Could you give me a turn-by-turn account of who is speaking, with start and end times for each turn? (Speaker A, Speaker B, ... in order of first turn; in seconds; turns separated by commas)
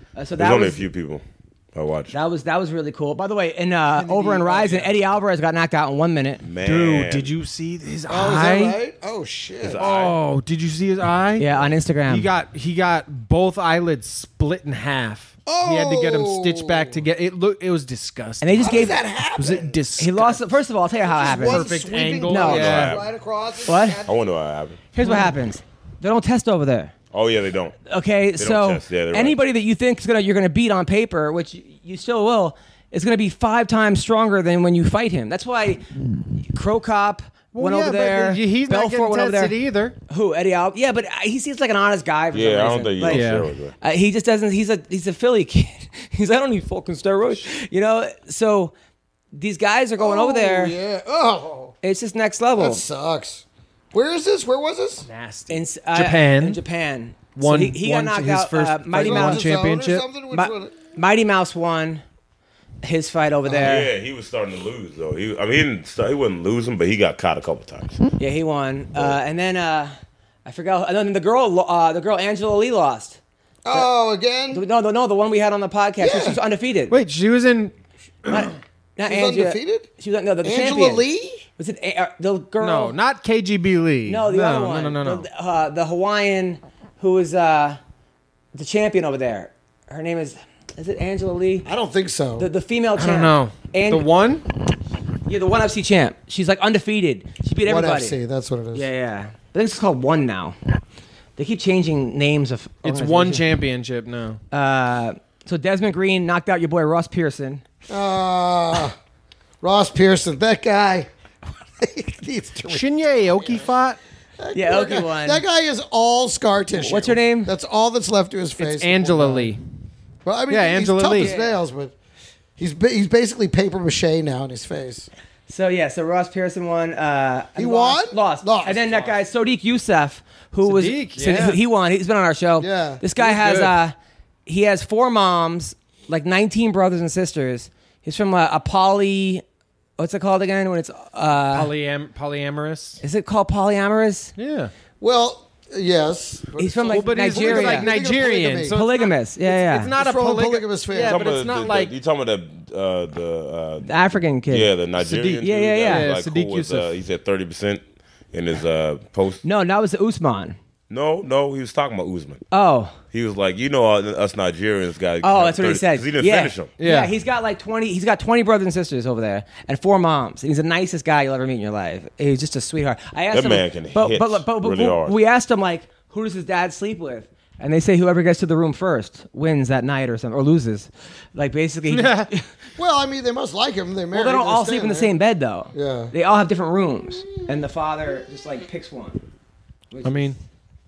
Speaker A: 0.1-0.8, Speaker B: 0.4-2.1, Speaker A: 2.1-6.4, Speaker C: 4.0-4.9, Speaker B: 6.4-7.3, Speaker C: 6.6-8.8, Speaker D: 8.1-9.9, Speaker B: 9.6-10.2, Speaker C: 9.8-11.5, Speaker A: 11.4-12.3, Speaker C: 12.1-20.4, Speaker D: 15.4-17.1, Speaker A: 18.4-19.0, Speaker D: 18.6-19.8, Speaker A: 20.0-21.7, Speaker D: 21.0-24.2, Speaker C: 21.2-23.0, Speaker A: 22.2-22.8, Speaker B: 22.3-23.0, Speaker A: 23.6-24.0, Speaker B: 24.1-24.8, Speaker A: 24.9-26.9, Speaker B: 27.1-27.8, Speaker A: 27.9-39.5, Speaker B: 28.4-29.4, Speaker C: 37.5-40.0, Speaker A: 40.1-43.3, Speaker B: 42.3-43.7, Speaker C: 43.0-43.5, Speaker A: 43.8-48.7, Speaker A: 49.3-50.8, Speaker D: 50.0-51.7, Speaker A: 51.8-52.8, Speaker D: 52.6-55.1, Speaker C: 55.0-56.6, Speaker A: 55.5-59.5, Speaker C: 57.4-60.0, Speaker D: 58.9-60.7, Speaker A: 60.3-62.0, Speaker A: 62.8-63.9, Speaker D: 63.5-63.7, Speaker B: 63.6-68.0, Speaker A: 68.2-73.2, Speaker D: 73.6-74.6, Speaker A: 74.5-77.0, Speaker D: 76.0-76.4, Speaker C: 76.9-77.7, Speaker A: 78.2-81.0, Speaker D: 79.1-79.9, Speaker D: 80.4-81.4, Speaker A: 81.6-83.0, Speaker C: 82.6-85.2, Speaker A: 84.0-87.8, Speaker A: 88.5-91.7, Speaker D: 91.6-92.5, Speaker A: 92.4-94.1, Speaker C: 93.0-94.4, Speaker A: 95.2-98.2, Speaker D: 97.6-98.9, Speaker A: 98.7-100.6, Speaker A: 101.4-103.4, Speaker C: 102.8-104.4, Speaker A: 104.5-107.6, Speaker D: 107.9-109.0, Speaker D: 109.6-111.1, Speaker D: 111.8-113.7, Speaker C: 112.7-114.0, Speaker D: 114.4-119.5, Speaker A: 114.5-115.4, Speaker A: 116.7-117.5, Speaker C: 118.6-119.6, Speaker D: 120.2-121.9, Speaker C: 120.5-121.3, Speaker A: 121.2-121.5, Speaker D: 122.6-125.1, Speaker A: 125.5-133.9, Speaker D: 127.5-129.1, Speaker C: 130.6-131.6, Speaker D: 132.6-133.0, Speaker C: 133.2-133.7, Speaker A: 134.4-139.4, Speaker A: 140.0-141.7, Speaker C: 141.5-143.0, Speaker A: 143.0-144.3, Speaker C: 144.4-144.7, Speaker D: 145.0-148.8, Speaker A: 146.6-147.9, Speaker C: 146.9-151.9, Speaker A: 148.7-149.9, Speaker D: 149.9-151.3, Speaker B: 151.0-153.9, Speaker A: 153.8-154.7, Speaker B: 154.5-159.4, Speaker C: 155.0-156.9, Speaker A: 155.4-156.1, Speaker A: 159.4-160.6, Speaker B: 160.9-162.4, Speaker A: 162.5-163.0, Speaker B: 163.1-166.7, Speaker A: 165.2-182.4, Speaker C: 166.8-167.1, Speaker B: 173.3-175.2, Speaker C: 181.9-182.3, Speaker D: 182.8-185.1, Speaker A: 184.1-189.2, Speaker D: 185.7-186.1, Speaker A: 189.9-190.3, Speaker C: 190.0-190.4